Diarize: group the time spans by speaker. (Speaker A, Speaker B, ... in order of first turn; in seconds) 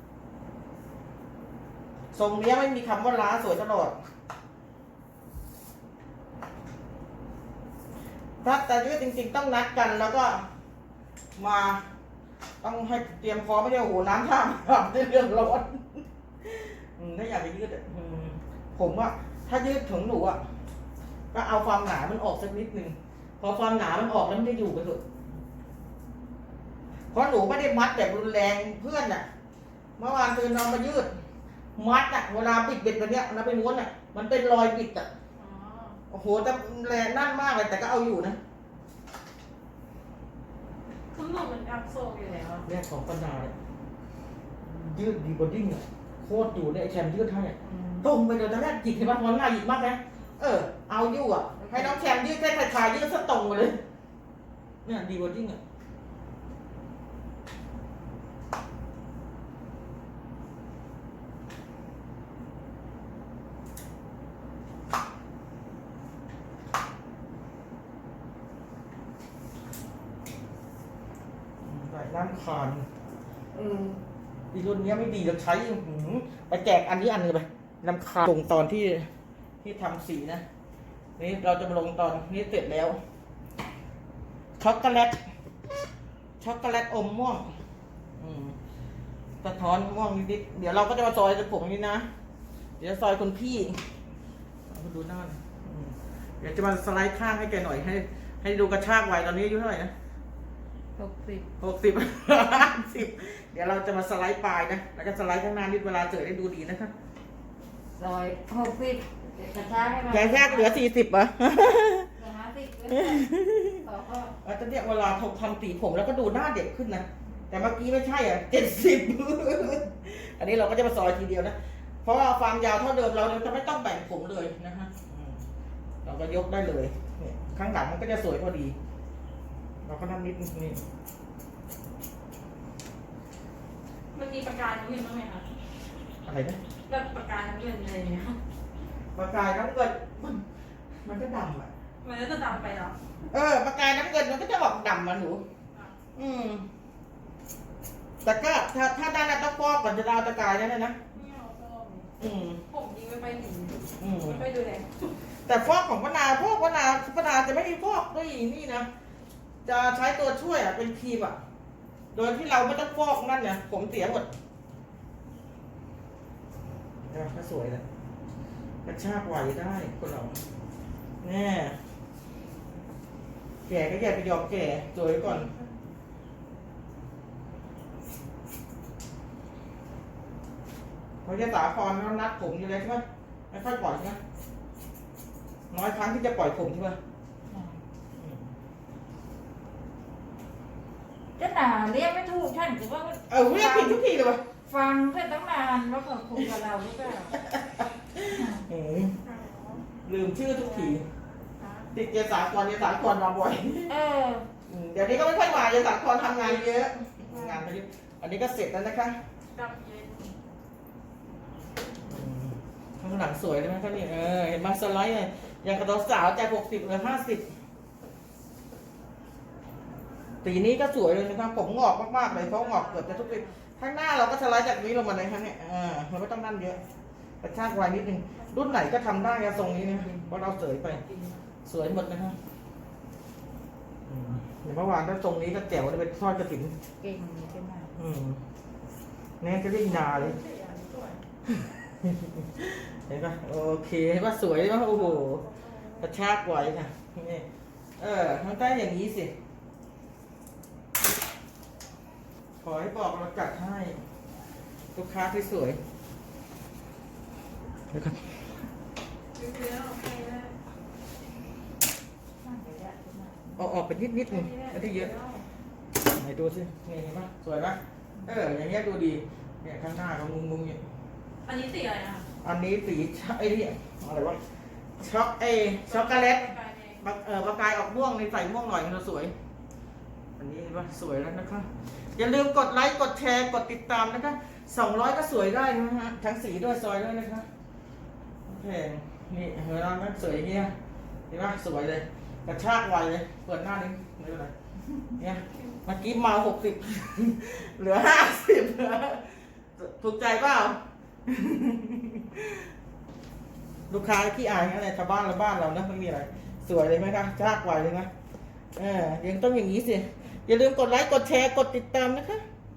Speaker A: 2.1-4.0, 8.4-10.4, 11.4-11.8, 12.6-20.4, 21.3-25.1, 27.1-29.3, 30.0-31.1, 31.8-35.1, 36.1-38.4, 42.6-43.5, 44.6-53.8, 54.8-55.6, 71.6-72.9, 74.5-79.1, 79.6-80.4, 81.2-83.0, 84.6-85.2, 86.4-87.5, 88.2-88.6, 89.4-92.1, 92.8-93.8, 94.7-99.9, 101.6-106.9, 110.1-112.1, 112.9-113.8, 114.4-125.4, 126.0-128.8, 129.8-130.8, 136.2-136.6, 139.2-140.4, 141.0-141.7, 143.3-145.4, 146.2-146.7, 148.2-151.0, 152.2-152.6, 154.0-154.4, 155.5-158.9, 159.7-161.4, 162.1-164.3, 167.1-167.8, 168.8-170.4, 171.2-171.8, 173.7-175.5, 181.2-184.2, 185.7-187.0, 188.2-188.4, 193.3-194.4, 197.3-199.2, 200.1-201.1, 201.9-204.0, 204.7-209.2, 212.1-217.5, 220.4-226.8, 227.4-231.0, 231.7-232.4, 234.1-236.8, 238.0-238.4, 239.4-240.4, 241.5-245.5, 246.0-247.5, 248.0-249.3, 252.6-254.0, 254.9-255.8, 257.9-258.3, 263.6-265.1, 266.0-270.8, 272.4-274.4, 275.0-279.3, 280.4-287.5, 288.5-290.7, 291.3-294.5, 295.2-302.7, 303.9-308.1, 308.8-312.4
Speaker B: 35.4-36.0, 41.1-42.7, 134.1-135.5, 136.9-138.4, 142.0-143.0, 145.7-146.0, 151.1-152.1, 152.7-155.1, 199.2-199.8, 200.6-201.0, 201.6-201.9, 205.0-206.7, 209.5-210.4, 222.3-223.5, 228.6-229.3, 239.8-241.2, 244.8-246.1, 259.4-260.5, 264.2-265.5, 271.4-272.3, 275.8-277.0
Speaker C: 47.6-48.1, 51.6-52.0, 73.5-74.0, 101.0-101.5, 108.0-110.8, 112.2-114.3, 187.5-187.8, 191.4-194.0, 194.7-197.4, 198.2-198.7, 203.9-204.5, 229.8-230.4, 237.0-237.9, 262.4-263.7